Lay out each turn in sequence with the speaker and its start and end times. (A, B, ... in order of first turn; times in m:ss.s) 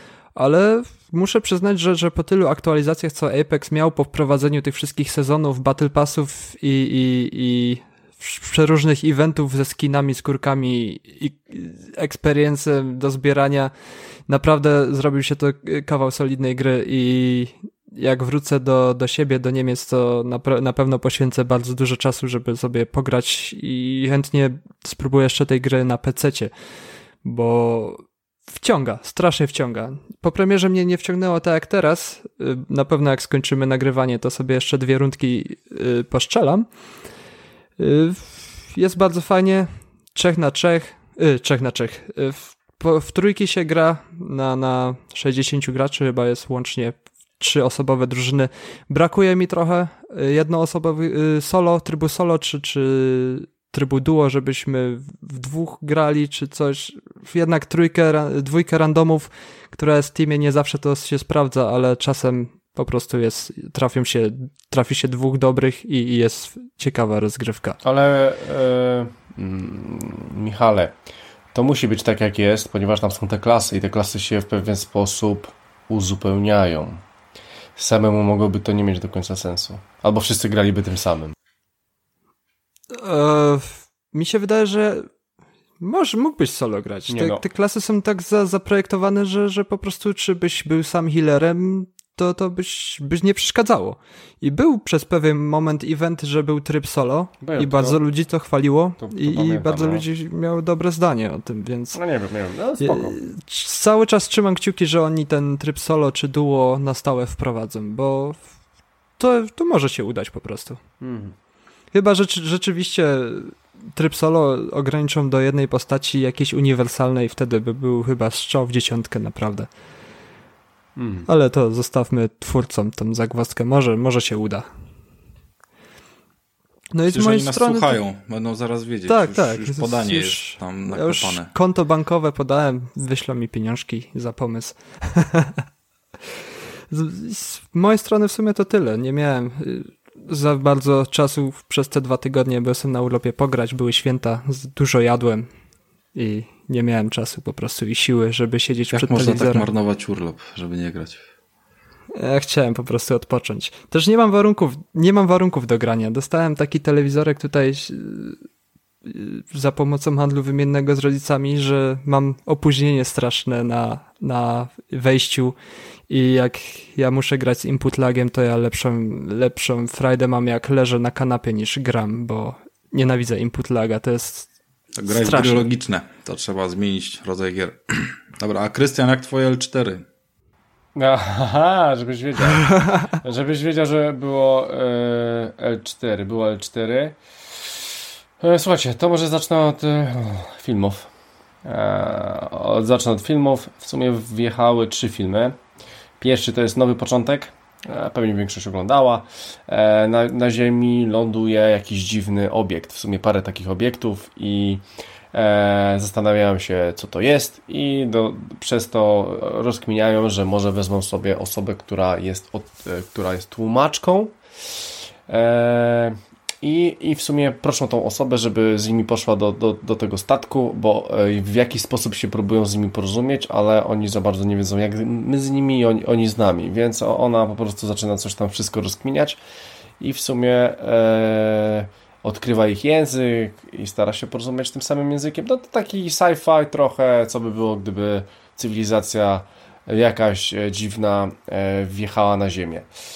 0:00.4-0:13.7 A
0:14.3-0:26.5 A
0:27.2-0:28.0 A
0:28.6-0:36.7 A
0:37.8-1:07.8 A
1:07.8-1:10.9 B
1:11.5-1:17.0 B
1:17.8-1:21.3 B
1:22.9-1:25.1 A
1:25.8-1:42.0 A
1:27.1-1:27.4 B
1:37.4-1:38.0 B
1:39.0-1:40.0 B
1:42.0-1:43.2 B
1:42.8-1:48.4 A
1:49.2-1:50.8 A
1:51.0-1:51.4 B
1:51.9-1:59.7 A
2:01.0-2:01.3 B
2:01.3-2:04.7 A
2:06.9-2:08.0 A
2:07.1-2:11.5 C
2:09.1-2:15.6 A
2:16.9-2:25.5 A
2:26.2-2:29.7 A
2:28.9-2:31.2 C
2:32.2-2:38.4 A
2:39.1-2:45.6 A
2:46.1-2:54.5 A
2:55.0-3:00.0 C
2:55.1-2:55.7 A
3:01.0-3:07.2 B
3:08.4-3:11.1 B
3:11.6-3:15.6 B
3:16.2-3:24.8 B
3:25.3-3:34.4 B
3:35.3-3:49.4 B
3:50.0-4:02.9 B